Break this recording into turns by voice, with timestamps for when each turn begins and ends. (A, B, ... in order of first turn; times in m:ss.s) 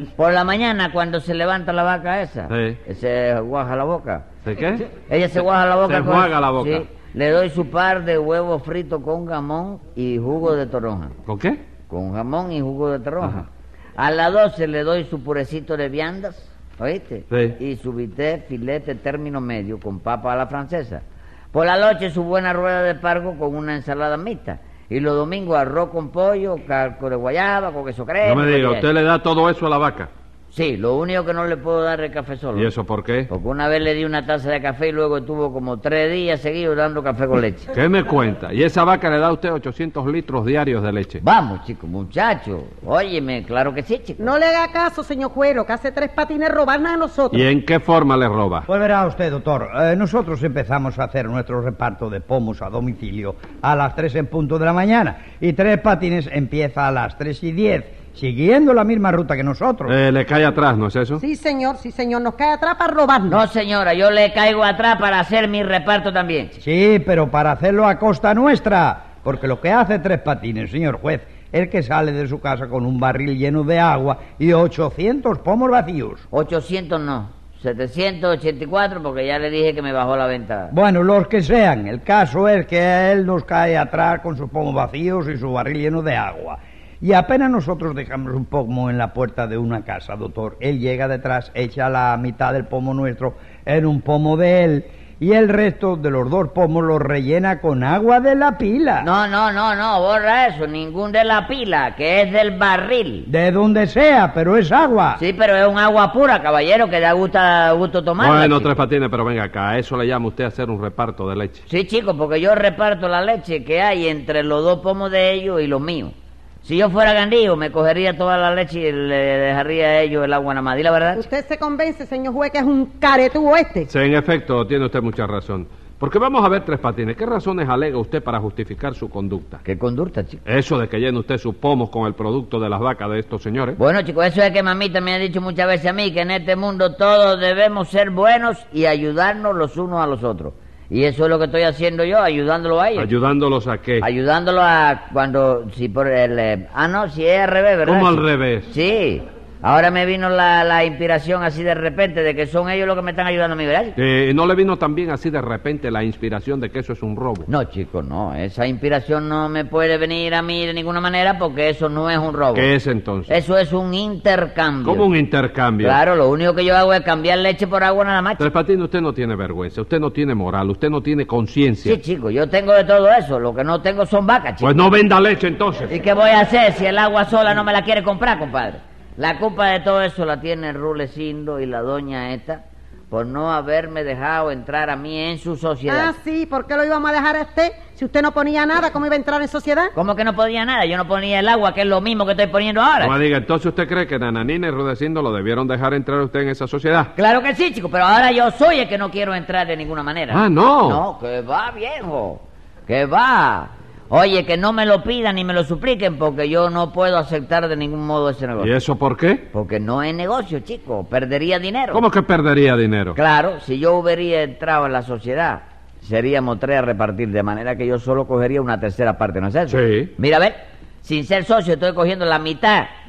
0:00.2-0:04.2 A
0:02.5-0:02.8 B
0:04.4-0:04.9 B
0:05.0-0:11.1 A
0:05.8-0:06.8 B
0:11.2-0:11.6 B
0:11.9-0:28.9 A
0:17.3-0:17.6 B
0:28.2-0:30.1 B
0:30.5-0:32.7 A
0:32.5-0:33.3 B
0:33.3-0:37.7 A
0:37.7-0:41.2 B
0:41.2-0:44.3 A
0:44.2-0:47.4 C
0:47.3-0:48.6 B
0:48.7-0:59.9 D
0:59.8-1:01.2 B
1:01.2-1:03.4 C
1:03.3-1:06.6 A
1:06.6-1:16.2 D
1:16.3-1:20.7 A
1:20.7-1:39.1 D
1:39.0-1:43.3 A
1:43.3-1:45.2 D
1:45.2-1:48.8 A
1:48.2-1:51.6 B
1:51.7-2:01.3 A
2:01.2-2:03.9 C
2:03.9-2:09.6 B
2:09.6-2:10.4 A
2:10.4-2:13.8 B
2:13.8-2:23.1 A
2:23.0-2:24.1 B
2:24.0-2:33.9 A
2:27.8-2:28.7 B
2:34.0-2:37.5 B
2:37.5-2:42.7 A
2:42.5-2:43.3 B
2:43.3-2:45.1 A
2:44.8-2:46.0 B
2:45.8-2:48.5 A
2:48.4-2:52.0 B
2:51.8-2:54.9 A
2:54.6-2:55.9 B
2:55.9-3:06.1 A
3:05.9-3:09.9 C
3:09.9-3:13.1 A
3:13.0-3:17.1 B
3:17.2-3:28.7 A
3:20.3-3:21.0 B
3:28.6-3:29.4 B
3:29.5-3:32.0 A
3:31.9-3:33.2 B
3:33.1-3:42.9 A
3:39.7-3:40.1 B